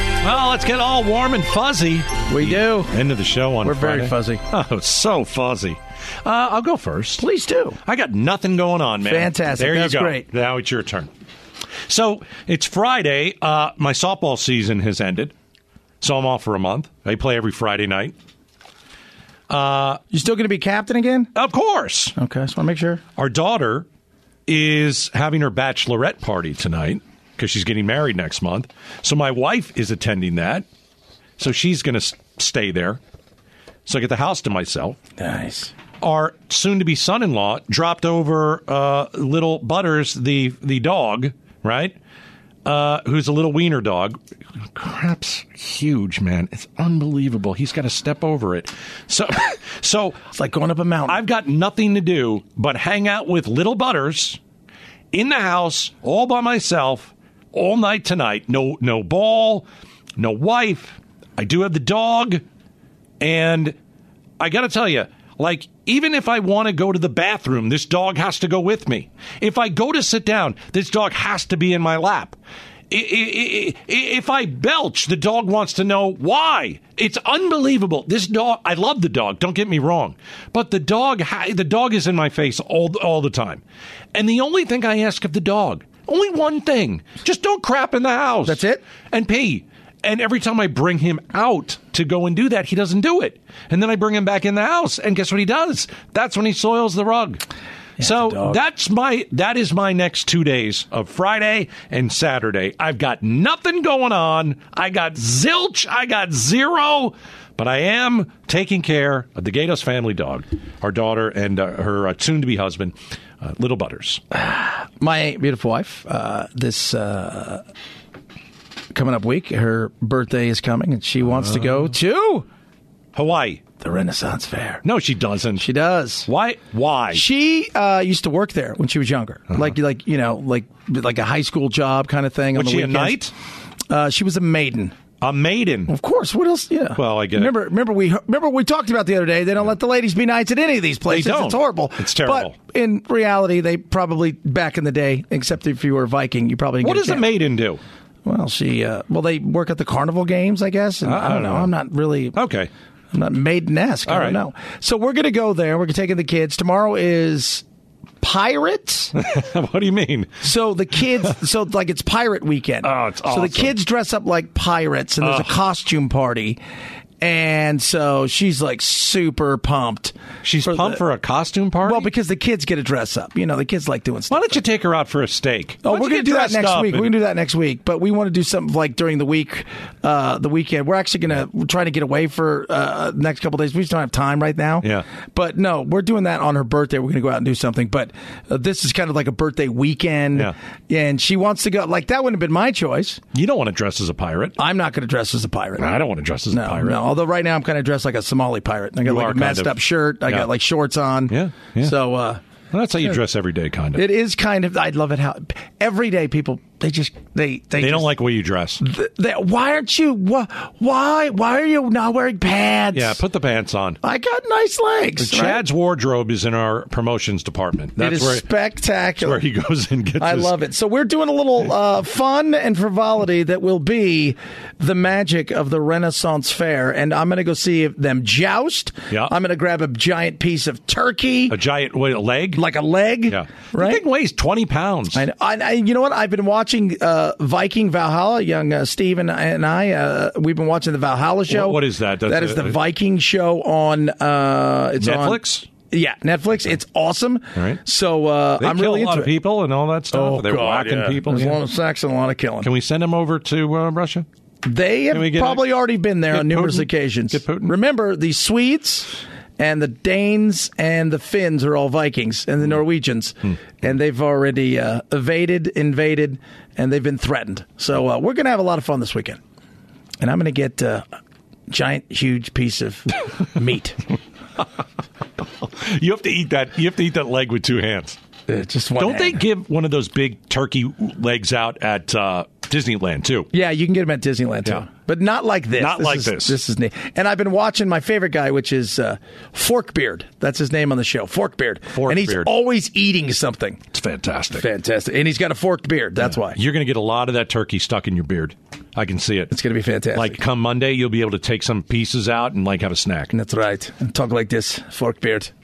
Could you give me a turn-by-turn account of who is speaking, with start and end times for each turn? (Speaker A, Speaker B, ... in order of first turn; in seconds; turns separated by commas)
Speaker A: 0.2-7.2, Speaker B: 2.3-3.0, Speaker B: 3.6-4.4, Speaker B: 7.2-7.8, Speaker A: 7.8-11.1, Speaker B: 9.0-10.2, Speaker A: 11.9-15.3, Speaker A: 16.0-18.1, Speaker A: 19.5-20.0, Speaker B: 20.1-21.3, Speaker A: 21.3-22.1, Speaker B: 22.1-23.0, Speaker A: 23.1-23.9, Speaker A: 24.5-30.6, Speaker A: 31.4-33.0, Speaker A: 33.9-35.0, Speaker B: 35.2-35.7, Speaker A: 36.0-41.9, Speaker A: 42.6-44.2, Speaker A: 44.7-50.2, Speaker B: 50.3-51.2, Speaker A: 51.1-54.4, Speaker A: 55.1-62.4, Speaker A: 63.2-63.8, Speaker A: 64.4-72.4, Speaker A: 72.9-83.6, Speaker A: 84.1-97.4, Speaker B: 88.4-88.8, Speaker B: 98.0-98.6, Speaker A: 98.0-114.2, Speaker B: 114.3-117.6, Speaker B: 118.9-122.5, Speaker A: 123.1-123.6, Speaker B: 123.8-124.8, Speaker A: 124.8-125.7, Speaker B: 125.6-126.3, Speaker A: 126.3-127.2, Speaker B: 127.1-133.2, Speaker A: 132.5-133.3, Speaker B: 133.9-134.9, Speaker A: 135.2-135.9, Speaker B: 135.9-147.2, Speaker A: 136.9-137.5, Speaker A: 141.1-142.5, Speaker A: 146.8-147.8, Speaker B: 148.2-152.4, Speaker A: 151.0-151.7, Speaker A: 152.3-152.7, Speaker B: 153.1-157.6, Speaker A: 154.1-154.4, Speaker B: 158.2-159.1, Speaker A: 159.1-160.3, Speaker B: 160.4-166.6, Speaker A: 162.8-163.7, Speaker A: 165.2-165.5, Speaker B: 167.2-170.1, Speaker A: 170.4-172.1, Speaker B: 170.6-171.0, Speaker B: 171.8-174.6, Speaker A: 174.3-177.1, Speaker B: 175.8-193.2, Speaker A: 193.3-194.6, Speaker B: 194.6-195.9, Speaker A: 195.8-197.0, Speaker B: 196.5-202.4, Speaker A: 199.0-200.5, Speaker A: 201.3-201.9, Speaker A: 202.7-204.0, Speaker B: 203.9-208.1, Speaker A: 207.8-208.8, Speaker B: 208.8-213.2, Speaker A: 212.9-214.0, Speaker B: 214.0-215.6, Speaker A: 215.2-218.4, Speaker B: 218.0-219.4, Speaker A: 219.2-220.6, Speaker B: 220.2-231.6, Speaker A: 231.5-232.6, Speaker B: 232.5-234.0, Speaker A: 233.3-235.2, Speaker B: 235.1-249.3, Speaker A: 241.5-242.8, Speaker A: 245.0-245.7, Speaker A: 248.6-251.6, Speaker B: 250.1-252.7, Speaker A: 252.6-254.2, Speaker B: 254.6-269.4, Speaker A: 255.1-255.7, Speaker A: 256.3-257.7, Speaker B: 270.2-271.0, Speaker B: 271.7-274.0, Speaker A: 275.6-278.2, Speaker B: 278.5-279.4, Speaker A: 279.0-283.5, Speaker B: 283.5-293.8, Speaker A: 285.8-286.6, Speaker A: 291.9-292.5, Speaker A: 293.9-294.7, Speaker B: 294.5-296.6, Speaker A: 296.4-299.5, Speaker B: 299.5-300.4, Speaker A: 300.1-303.3, Speaker B: 303.3-305.5